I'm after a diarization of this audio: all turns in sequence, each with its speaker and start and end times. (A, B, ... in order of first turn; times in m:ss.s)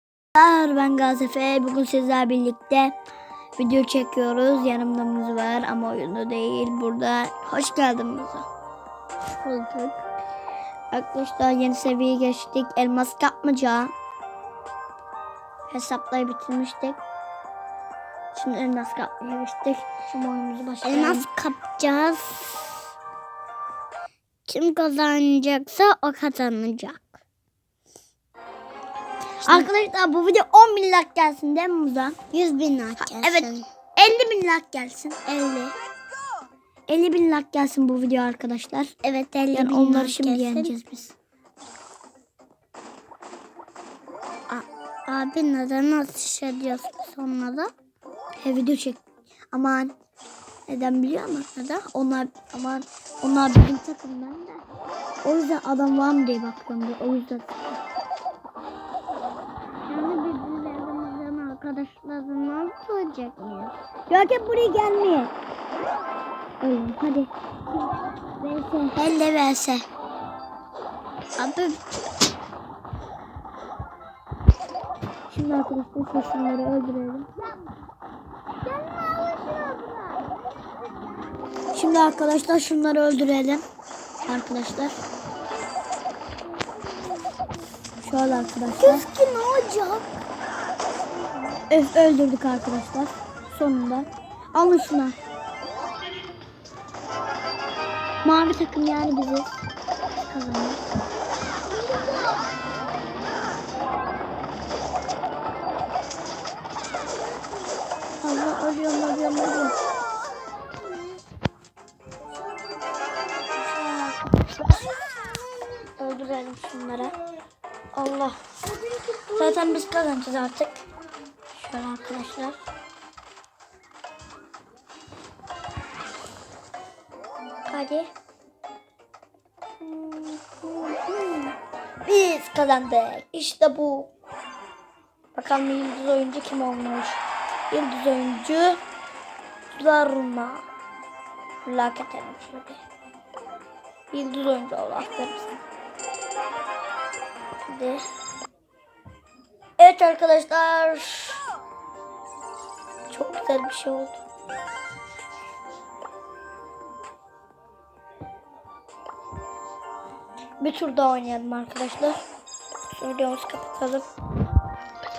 0:00.4-0:03.0 A
0:03.6-0:08.5 A
0:09.4-0:10.0 B
0:10.9-0:13.9 A
0:15.7-0:17.0 A
0:18.3-0:21.3 A
0:20.8-0:22.8 B
0:24.5-0:27.2 B
0:29.4-0:29.7 B
0:29.4-0:32.2 A
0:32.3-0:33.6 B
0:33.0-0:35.3 A
0:35.3-0:35.8 B
0:36.9-0:38.9 A
0:39.0-0:40.8 B
0:39.5-0:41.2 A
0:44.5-0:47.7 B
0:48.4-0:50.0 A
0:50.7-0:54.6 A
0:51.6-0:51.8 B
0:55.2-0:57.8 A
0:59.9-1:03.8 B
1:04.1-1:05.3 A
1:06.6-1:07.3 A
1:08.4-1:09.8 A
1:11.4-1:11.8 B
1:15.3-1:17.3 A
1:18.6-1:20.7 B
1:21.7-1:23.6 A
1:24.3-1:25.0 A
1:26.7-1:27.6 B
1:28.0-1:29.1 A
1:28.2-1:30.1 B
1:31.7-1:35.2 A
1:38.2-1:39.5 A
1:40.3-1:40.8 A
1:41.8-1:42.4 B
1:48.2-1:49.8 A
1:50.8-1:51.2 B
1:53.6-1:54.2 A
1:56.0-1:57.1 A
1:58.0-1:58.4 A
1:58.6-2:00.0 B
1:59.4-2:00.8 A
2:01.5-2:02.6 A
2:07.7-2:08.1 A
2:09.8-2:14.1 A
2:15.4-2:18.8 A
2:19.7-2:20.6 A
2:21.6-2:22.8 A
2:24.1-2:25.6 A
2:27.6-2:28.0 A
2:29.8-2:31.4 A
2:33.1-2:34.2 A
2:40.6-2:42.2 A
2:42.9-2:44.0 A